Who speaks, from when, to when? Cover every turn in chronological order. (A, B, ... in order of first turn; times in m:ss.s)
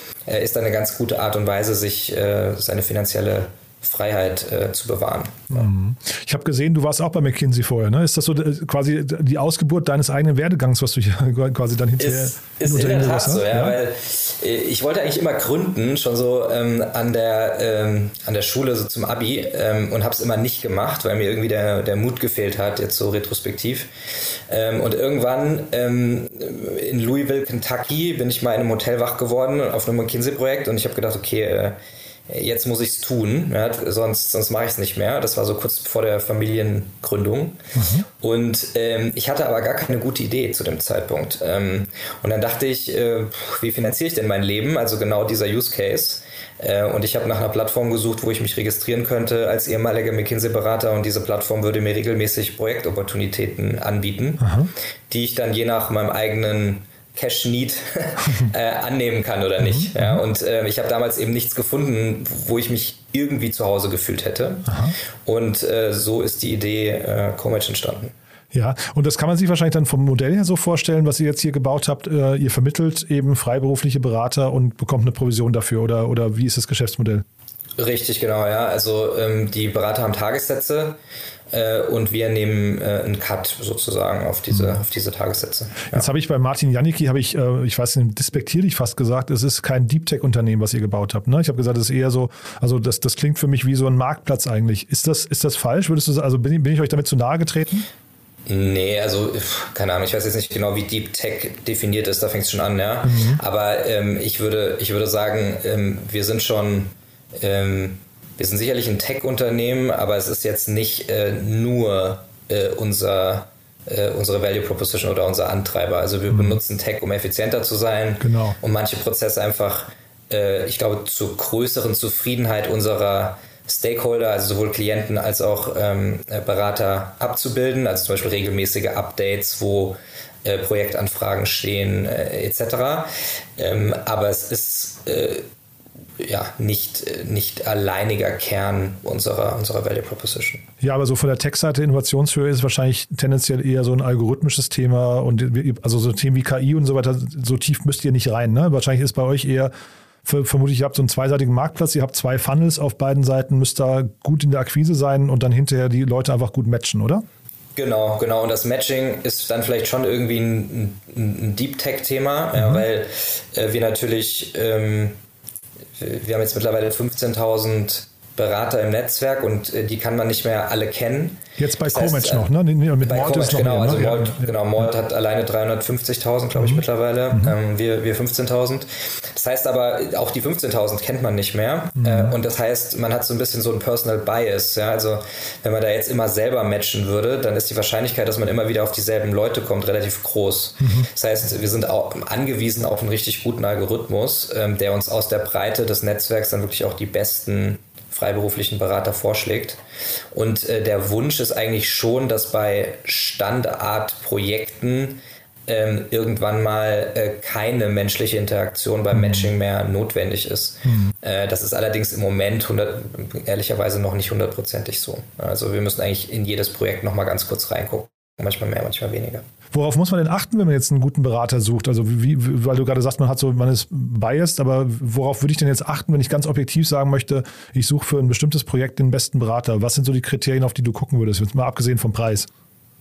0:00.3-0:05.7 A
0:05.5-0:13.8 B
0:12.0-0:23.9 A
0:24.5-0:31.8 A
0:32.3-0:37.6 A
0:37.7-0:38.0 B
0:38.2-0:54.5 A
0:54.4-0:54.7 B
0:55.1-1:08.1 A
0:59.6-1:00.2 B
1:04.7-1:04.9 B
1:08.5-1:17.2 B
1:17.8-1:21.0 A
1:21.5-1:26.0 A
1:25.9-1:37.9 B
1:38.5-2:15.4 A
1:43.0-1:43.4 B
1:56.3-1:56.6 B
1:58.2-1:58.6 B
2:16.2-2:20.6 A
2:20.8-2:29.7 B
2:30.2-2:37.2 B
2:37.8-2:45.2 A
2:42.5-2:42.8 B
2:46.0-2:52.5 A
2:51.6-2:54.9 B
2:53.0-3:19.8 A
2:56.6-2:57.5 B
3:02.0-3:02.3 B
3:10.8-3:11.1 B
3:20.3-3:39.4 A
3:29.1-3:29.5 B
3:30.9-3:31.1 B
3:39.7-3:52.5 B